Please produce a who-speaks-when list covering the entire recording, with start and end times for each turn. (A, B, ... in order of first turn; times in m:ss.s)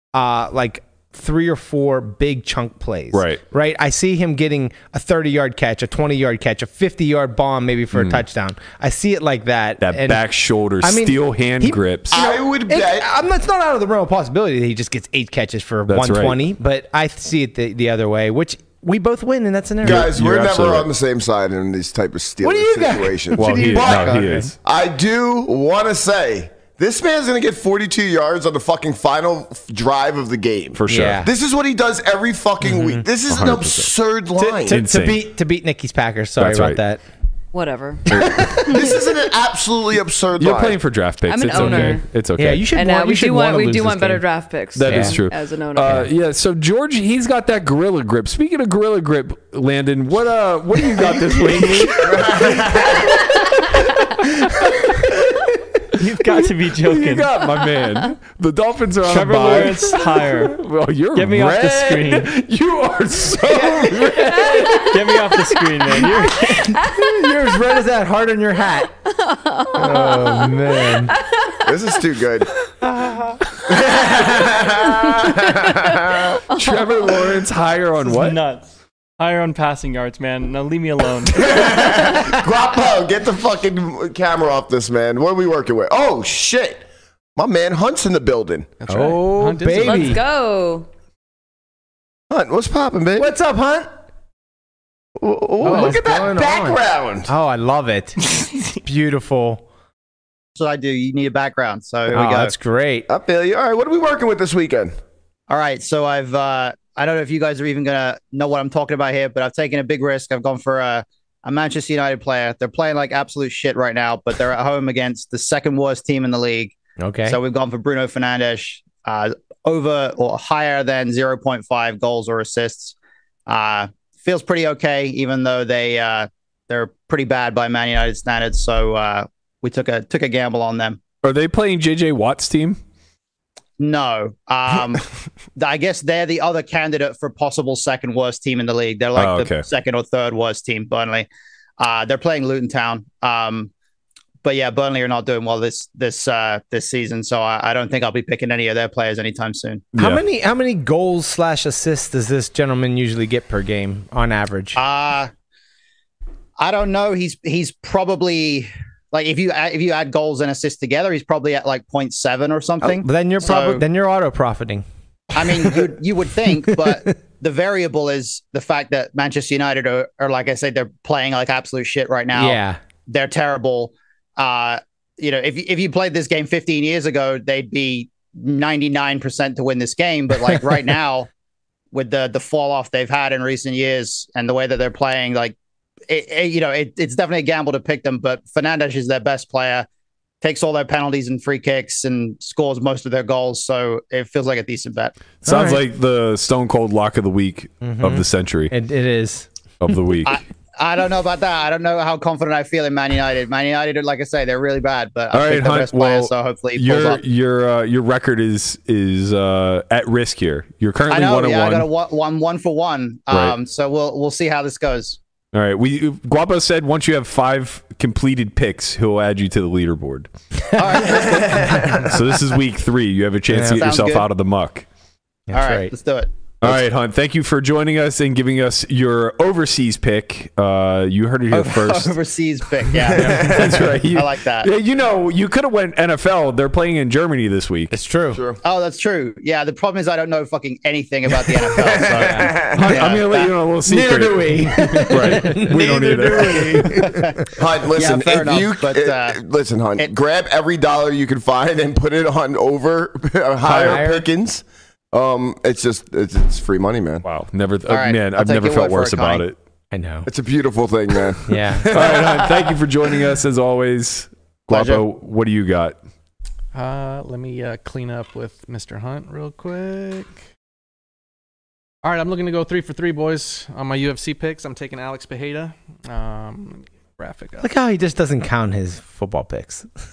0:00.1-0:10.2 A
0:03.1-0:03.4 B
0:07.9-0:08.2 B
0:09.8-0:12.2 B
0:10.8-0:20.1 A
0:12.1-0:13.1 C
0:15.9-0:16.4 B
0:19.8-0:20.9 B
0:19.8-0:34.8 C
0:22.4-0:24.5 A
0:23.3-0:24.5 B
0:30.7-0:31.2 B
0:30.9-0:31.3 A
0:32.6-0:33.0 A
0:33.3-0:33.9 B
0:34.4-0:37.0 A
0:34.7-0:35.2 B
0:36.4-0:36.8 B
0:37.5-0:38.8 D
0:38.1-0:38.9 A
0:38.1-0:38.4 B
0:38.7-0:40.8 C
0:40.4-0:42.6 B
0:41.3-0:42.0 D
0:41.5-0:44.2 A
0:42.7-0:46.0 D
0:44.8-0:53.0 B
0:44.8-0:45.2 A
0:51.6-0:52.8 A
0:52.1-0:53.0 C
0:53.4-0:54.0 D
0:56.0-0:57.3 E
0:56.3-1:04.9 B
0:59.0-1:00.6 E
1:01.1-1:02.3 E
1:03.5-1:04.2 A
1:04.2-1:07.0 D
1:04.8-1:06.7 E
1:06.3-1:08.9 A
1:09.1-1:11.7 D
1:09.7-1:11.1 A
1:11.6-1:12.5 C
1:13.6-1:16.4 C
1:16.5-1:16.8 D
1:16.5-1:18.4 B
1:18.0-1:21.5 E
1:21.3-1:26.8 C
1:27.4-1:28.7 C
1:28.8-1:30.2 F
1:28.9-1:30.2 A
1:29.8-1:30.9 D
1:32.3-1:33.3 C
1:33.2-1:33.9 A
1:35.2-1:37.3 C
1:35.6-1:39.6 A
1:35.6-1:36.0 F
1:40.5-1:42.5 G
1:42.1-1:43.1 A
1:43.1-1:44.9 C
1:45.5-2:02.9 G
1:57.0-1:57.4 A
2:03.4-2:11.0 G
2:11.2-2:12.8 B
2:13.8-2:15.0 G
2:15.6-2:23.7 G
2:19.1-2:19.6 B
2:24.4-2:29.8 G
2:29.9-2:30.2 B
2:30.0-2:34.8 A
2:34.8-2:35.3 G
2:36.6-2:43.8 G
2:42.8-2:47.1 A
2:45.3-3:01.3 G
2:52.3-2:52.8 A
3:00.3-3:00.9 A
3:01.9-3:05.6 G
3:06.1-3:09.9 G
3:10.4-3:15.1 G
3:15.4-3:18.7 B
3:15.4-3:15.8 A
3:17.8-3:20.0 A
3:19.8-3:20.4 B
3:20.2-3:27.2 G
3:25.3-3:31.9 B
3:31.1-3:35.2 G
3:33.3-3:33.6 B
3:35.5-3:40.3 B
3:40.7-3:42.0 G
3:41.0-3:42.1 C
3:41.7-3:42.1 A
3:42.0-3:44.8 B
3:43.5-3:44.0 A
3:43.7-3:44.3 G
3:45.5-3:45.9 A
3:45.5-3:46.3 G
3:46.6-3:52.1 B
3:51.5-3:54.7 G
3:53.1-3:53.7 A
3:53.1-3:53.7 C
3:53.4-3:57.9 B
3:57.9-3:58.4 A
3:58.3-3:58.6 C
3:58.6-4:03.5 G
4:01.8-4:02.7 C
4:01.9-4:07.5 A
4:02.7-4:07.0 B
4:07.0-4:07.3 G
4:07.6-4:17.2 C
4:07.9-4:09.4 G
4:13.6-4:14.1 B
4:13.7-4:14.3 A
4:17.2-4:19.6 B
4:17.9-4:19.4 G
4:19.9-4:20.3 A
4:20.3-4:21.9 C
4:21.5-4:22.1 A
4:21.9-4:26.0 B
4:24.7-4:25.0 G
4:26.7-4:30.4 F
4:32.0-4:37.7 F
4:37.6-4:39.9 A